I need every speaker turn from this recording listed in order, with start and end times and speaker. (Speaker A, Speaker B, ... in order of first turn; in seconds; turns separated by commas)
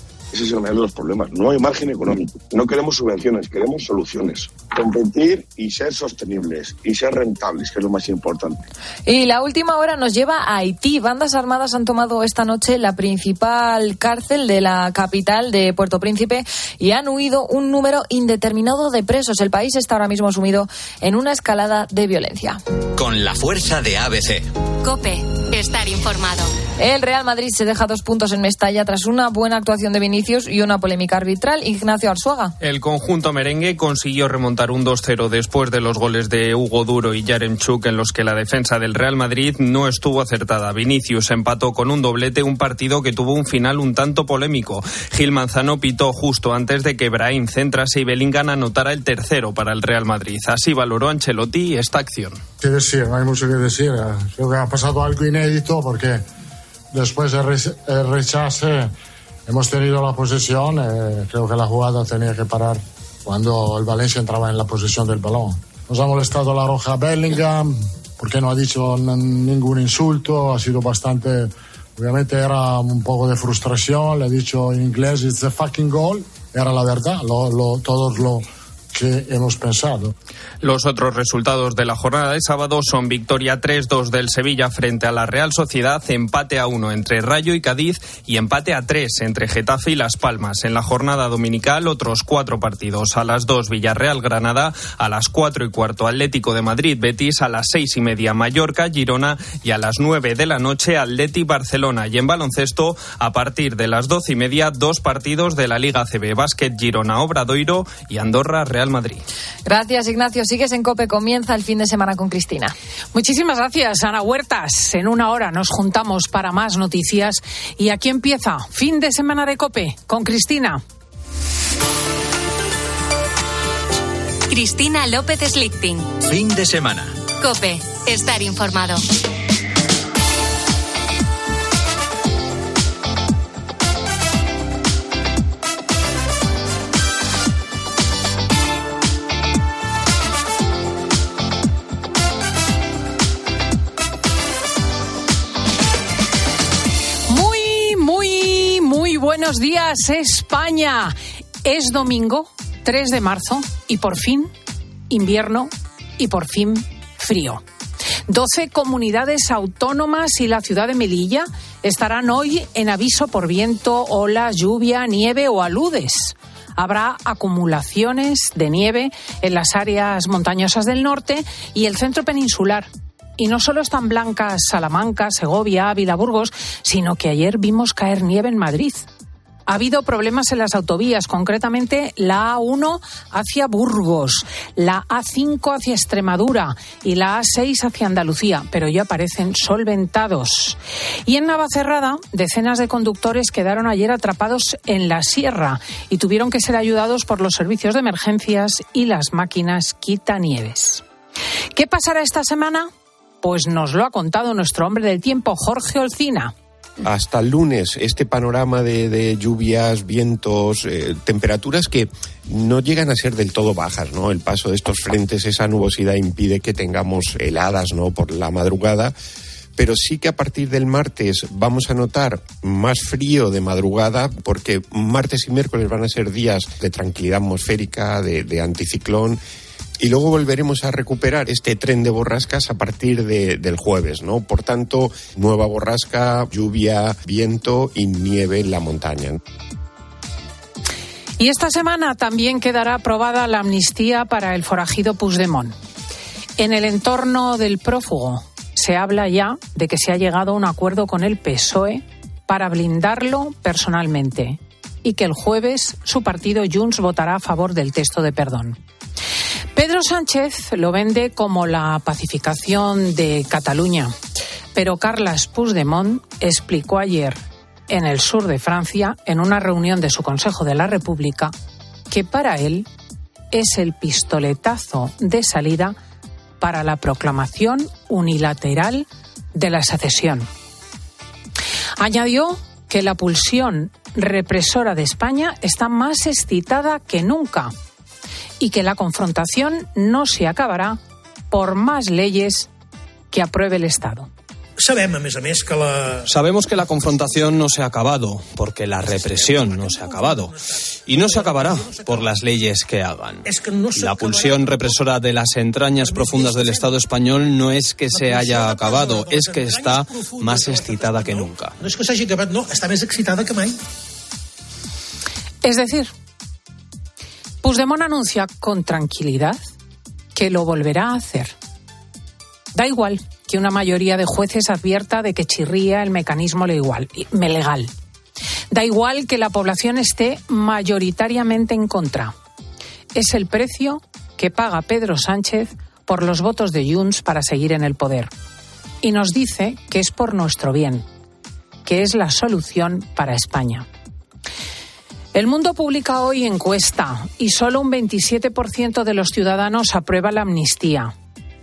Speaker A: 0.3-8.6, Speaker B: 9.1-22.6, Speaker C: 23.0-24.5, Speaker D: 24.8-26.5, Speaker B: 26.8-32.5, Speaker E: 32.6-52.4, Speaker F: 52.6-56.2, Speaker F: 56.9-58.9, Speaker F: 59.5-80.1, Speaker E: 80.6-109.2, Speaker B: 109.7-112.8, Speaker G: 113.1-120.8, Speaker D: 124.5-126.1, Speaker C: 126.2-127.2, Speaker D: 127.4-129.0, Speaker G: 147.3-154.5, Speaker G: 155.1-157.6, Speaker G: 158.3-179.1, Speaker G: 179.7-201.0, Speaker G: 201.8-202.9, Speaker G: 203.4-206.5, Speaker H: 207.0-219.2, Speaker H: 219.8-229.4, Speaker H: 230.0-239.4, Speaker G: 241.4-245.8, Speaker G: 246.6-258.8, Speaker G: 259.7-264.1, Speaker G: 264.8-271.5, Speaker G: 272.1-272.9, Speaker G: 273.5-276.0, Speaker G: 276.6-280.5, Speaker G: 282.0-287.7, Speaker G: 288.6-291.0, Speaker G: 291.5-292.7, Speaker G: 293.3-294.3, Speaker I: 296.2-311.8, Speaker G: 315.6-316.1, Speaker G: 317.6-319.6, Speaker G: 320.4-321.6, Speaker G: 322.7-327.9, Speaker G: 328.7-332.4, Speaker G: 333.1-338.3, Speaker G: 339.0-341.1, Speaker G: 341.9-343.9, Speaker G: 345.3-351.1